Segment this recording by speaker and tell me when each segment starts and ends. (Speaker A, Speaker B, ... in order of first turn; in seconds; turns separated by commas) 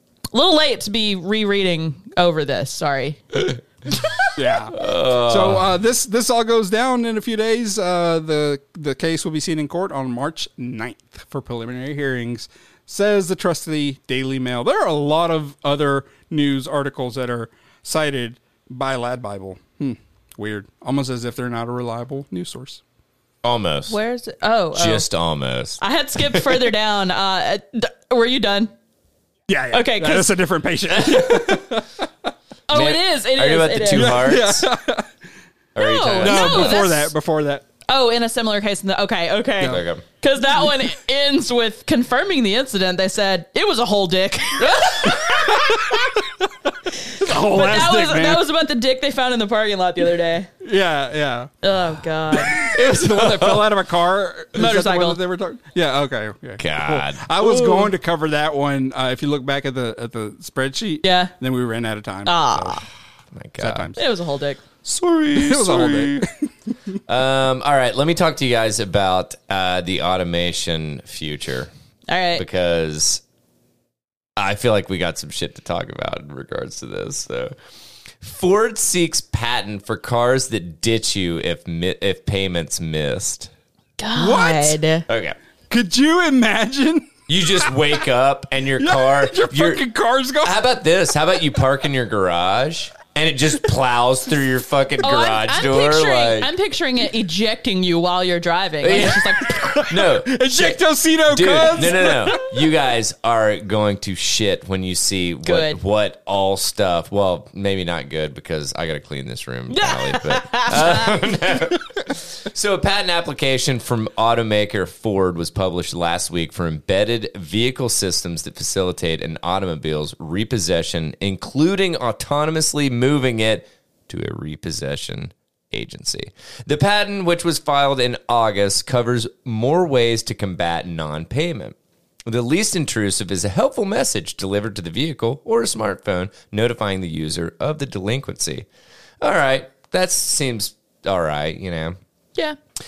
Speaker A: 0.3-3.2, Speaker B: 4.3-22.8, Speaker C: 4.8-5.6, Speaker C: 23.4-24.0, Speaker A: 23.9-25.1, Speaker C: 24.7-26.6, Speaker A: 25.8-28.7, Speaker B: 29.5-31.9, Speaker A: 29.7-30.3, Speaker C: 30.9-31.7, Speaker A: 32.7-34.3, Speaker C: 32.7-34.6, Speaker B: 33.9-35.1, Speaker C: 35.7-36.8, Speaker A: 35.8-37.1, Speaker B: 36.2-37.6, Speaker A: 37.9-46.1, Speaker C: 39.6-40.0, Speaker B: 45.4-46.0, Speaker B: 47.1-48.4, Speaker A: 47.3-50.5, Speaker B: 50.6-51.5, Speaker A: 51.6-52.6, Speaker B: 52.4-62.7, Speaker C: 52.5-53.7, Speaker A: 54.5-55.2, Speaker C: 56.6-57.4, Speaker A: 61.0-61.3, Speaker A: 62.2-62.8, Speaker C: 63.3-63.9, Speaker B: 63.6-64.0, Speaker A: 64.0-64.6, Speaker C: 64.8-66.3, Speaker B: 65.3-66.3, Speaker C: 67.1-71.7, Speaker A: 72.1-72.4, Speaker C: 72.3-73.2, Speaker C: 74.4-77.5, Speaker C: 78.2-83.5, Speaker A: 84.0-85.0, Speaker B: 84.1-84.8, Speaker C: 85.1-85.3, Speaker B: 85.7-87.1, Speaker C: 87.3-89.8, Speaker B: 88.8-90.6, Speaker C: 90.4-96.5, Speaker A: 95.0-99.6, Speaker C: 98.8-100.8, Speaker B: 99.4-102.4, Speaker C: 101.3-131.8, Speaker A: 102.0-102.3, Speaker A: 105.4-105.8, Speaker A: 109.7-111.2, Speaker C: 132.3-138.7, Speaker C: 139.2-141.9